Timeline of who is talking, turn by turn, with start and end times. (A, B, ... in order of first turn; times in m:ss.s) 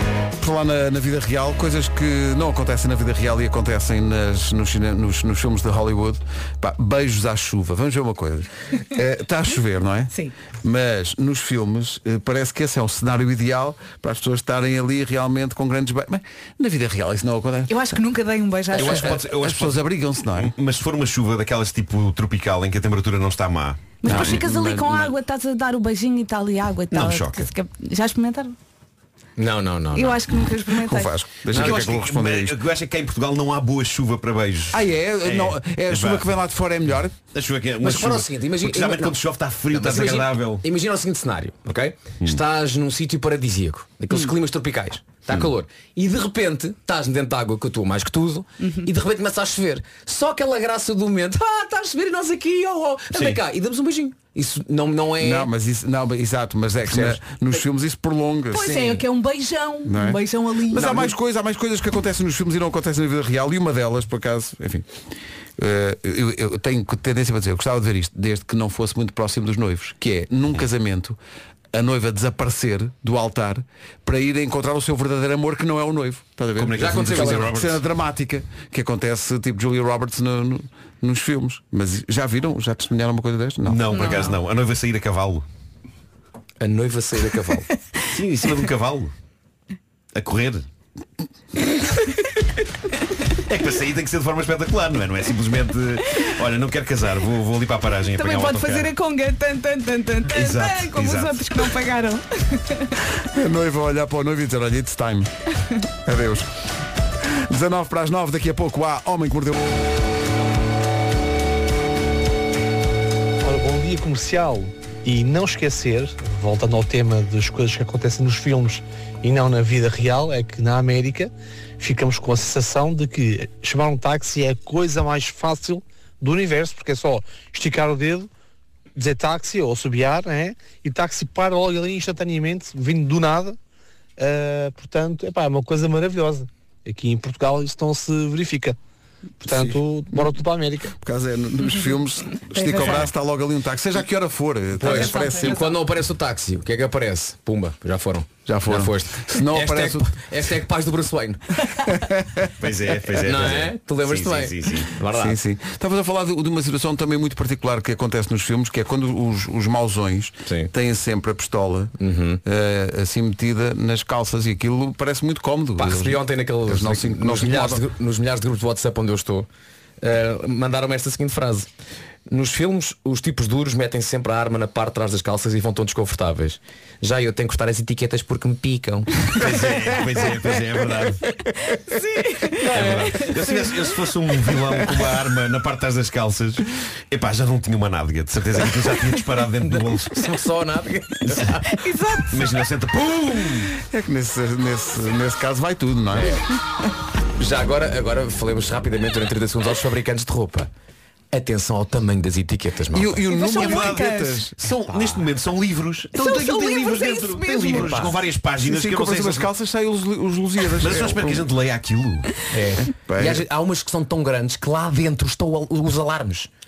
0:00.4-0:18.0 A
0:17.7-0:19.2 B
0:18.8-0:19.8 C
0:18.8-0:19.2 D
0:19.3-0:20.5 A
0:20.3-0:24.4 C
0:24.0-0:28.6 B
0:24.0-0:25.1 A
0:26.9-0:27.5 C
0:29.4-0:30.2 D
0:30.0-0:31.1 B
0:30.8-0:32.6 A
0:31.5-0:31.9 D
0:31.5-0:36.3 C
0:34.7-0:37.2 A
0:37.3-0:40.6 C
0:37.8-0:55.5 D
0:53.1-0:53.4 C
0:55.2-0:59.0 A
0:56.9-0:57.2 D
0:58.5-1:01.1 B
0:58.7-0:59.0 D
0:59.8-1:04.9 A
1:05.6-1:11.2 A
1:11.7-1:24.1 A
1:16.6-1:17.8 C
1:16.8-1:17.6 D
1:23.6-1:25.4 C
1:24.0-1:24.4 B
1:26.6-1:27.7 D
1:28.1-1:29.1 C
1:30.2-1:30.7 C
1:33.5-1:38.9 C
1:38.1-1:42.9 B
1:40.3-1:41.5 C
1:43.2-1:45.3 A
1:46.0-1:46.5 A
1:47.4-1:49.6 A
1:53.4-2:08.3 E
2:09.0-2:13.6 E
2:14.2-2:18.8 E
2:19.4-2:20.9 E
2:19.4-2:20.4 A
2:21.0-2:25.7 A
2:22.6-2:23.0 B
2:24.8-2:31.8 D
2:24.8-2:25.8 B
2:28.5-2:30.1 A
2:31.9-2:32.2 A
2:32.6-2:34.9 C
2:33.2-2:35.4 D
2:35.1-2:47.8 A
2:40.5-2:40.7 D
2:42.0-2:42.4 D
2:45.8-2:49.5 D
2:50.0-2:51.7 D
2:52.3-2:59.4 D
2:59.3-3:01.2 C
3:01.7-3:02.6 B
3:02.6-3:03.5 D
3:02.7-3:10.3 C
3:09.6-3:11.8 D
3:11.7-3:12.4 B
3:12.3-3:13.7 C
3:13.8-3:16.4 A
3:16.1-3:16.4 D
3:17.4-3:20.7 D
3:21.3-3:23.2 D
3:22.9-3:25.0 A
3:23.3-3:24.5 B
3:23.6-3:29.5 C
3:26.2-3:28.0 B
3:28.6-3:31.5 A
3:30.8-3:32.3 C
3:32.5-3:36.5 D
3:32.8-3:33.4 A